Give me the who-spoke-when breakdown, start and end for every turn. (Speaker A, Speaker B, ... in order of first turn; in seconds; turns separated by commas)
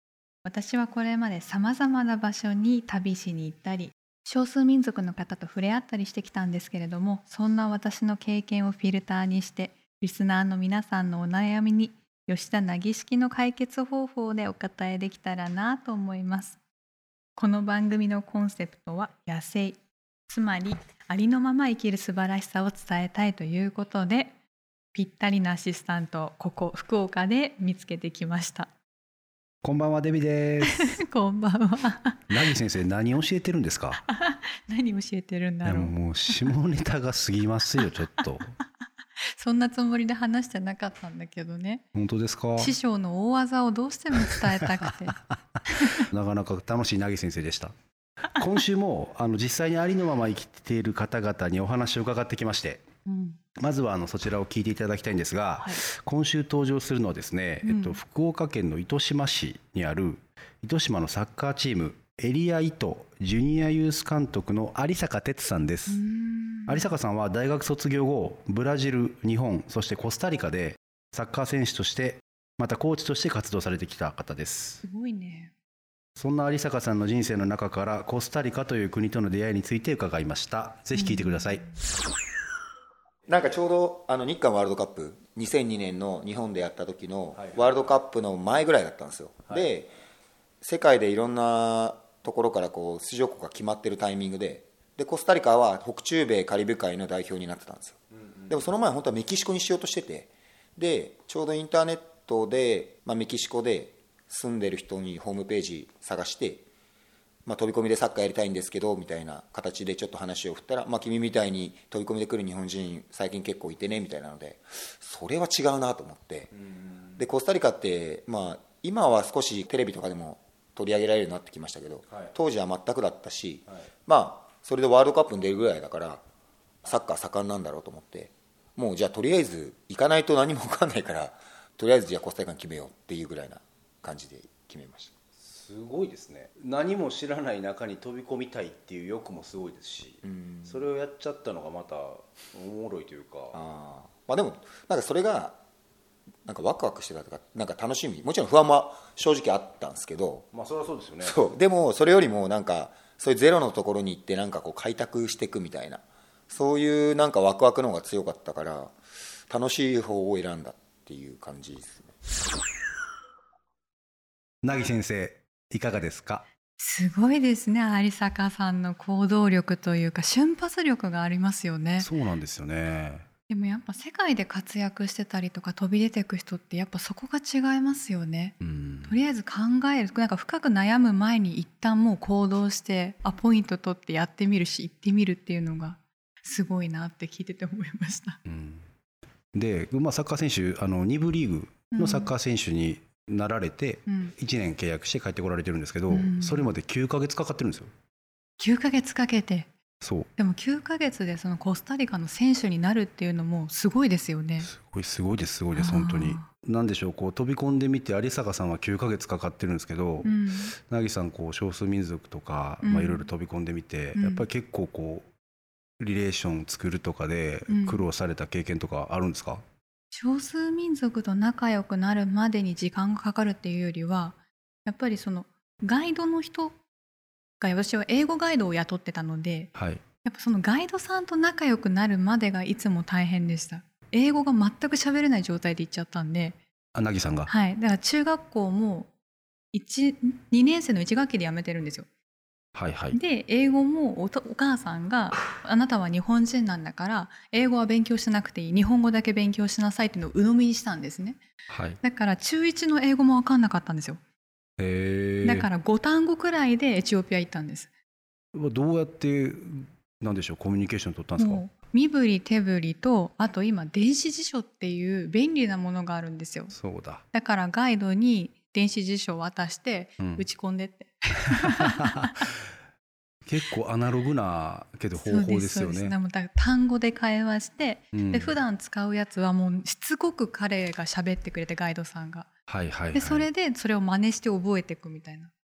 Speaker A: 0.5-16.6, Speaker A: 17.4-24.4, Speaker A: 24.9-28.7, Speaker B: 29.6-31.0, Speaker A: 30.7-32.3, Speaker B: 32.3-34.0, Speaker A: 34.1-36.0, Speaker B: 35.6-38.5, Speaker A: 39.3-41.8, Speaker B: 42.0-42.8, Speaker A: 42.6-45.2, Speaker A: 45.7-46.0, Speaker B: 45.9-47.7, Speaker B: 48.4-52.8, Speaker A: 53.1-53.4, Speaker B: 53.6-66.0, Speaker A: 57.6-58.0, Speaker A: 65.9-66.9, Speaker B: 66.7-74.8, Speaker A: 74.8-75.5, Speaker B: 76.2-81.7, Speaker A: 81.0-81.7, Speaker C: 83.3-89.9, Speaker C: 90.6-106.7, Speaker C: 107.5-116.6, Speaker C: 117.2-126.2, Speaker C: 126.8-135.1, Speaker B: 135.4-143.6, Speaker C: 140.2-140.8, Speaker C: 143.5-145.6, Speaker C: 146.5-150.5, Speaker B: 150.5-151.4, Speaker C: 151.2-158.9, Speaker C: 159.5-162.1, Speaker B: 164.6-166.4, Speaker A: 166.8-172.1, Speaker B: 172.0-173.3, Speaker A: 173.5-178.6, Speaker B: 178.6-179.2, Speaker A: 179.1-188.4, Speaker B: 188.5-188.8, Speaker B: 189.5-197.9, Speaker A: 191.9-192.3, Speaker A: 194.1-194.3, Speaker A: 196.1-196.8, Speaker A: 198.6-199.7, Speaker B: 200.0-200.3, Speaker A: 200.4-204.7, Speaker B: 204.6-215.3, Speaker A: 205.8-206.5, Speaker A: 210.2-210.7, Speaker A: 212.8-213.3, Speaker A: 214.2-214.5, Speaker B: 216.0-219.6, Speaker A: 217.7-218.1, Speaker A: 220.1-226.8, Speaker A: 227.6-229.7, Speaker B: 229.8-230.0, Speaker A: 230.2-236.6, Speaker B: 236.9-237.5, Speaker A: 237.5-239.1, Speaker A: 239.7-242.1, Speaker B: 242.8-243.2, Speaker A: 243.1-251.4, Speaker B: 251.7-252.0, Speaker A: 252.0-254.2, Speaker B: 254.8-255.7, Speaker A: 255.4-257.9, Speaker B: 258.5-261.6, Speaker A: 261.4-266.7, Speaker B: 266.7-267.2, Speaker A: 267.3-272.5, Speaker B: 270.2-270.5, Speaker B: 271.6-272.2, Speaker B: 273.4-276.1, Speaker A: 275.2-282.5, Speaker B: 278.1-278.6, Speaker B: 282.7-283.5, Speaker A: 283.1-285.5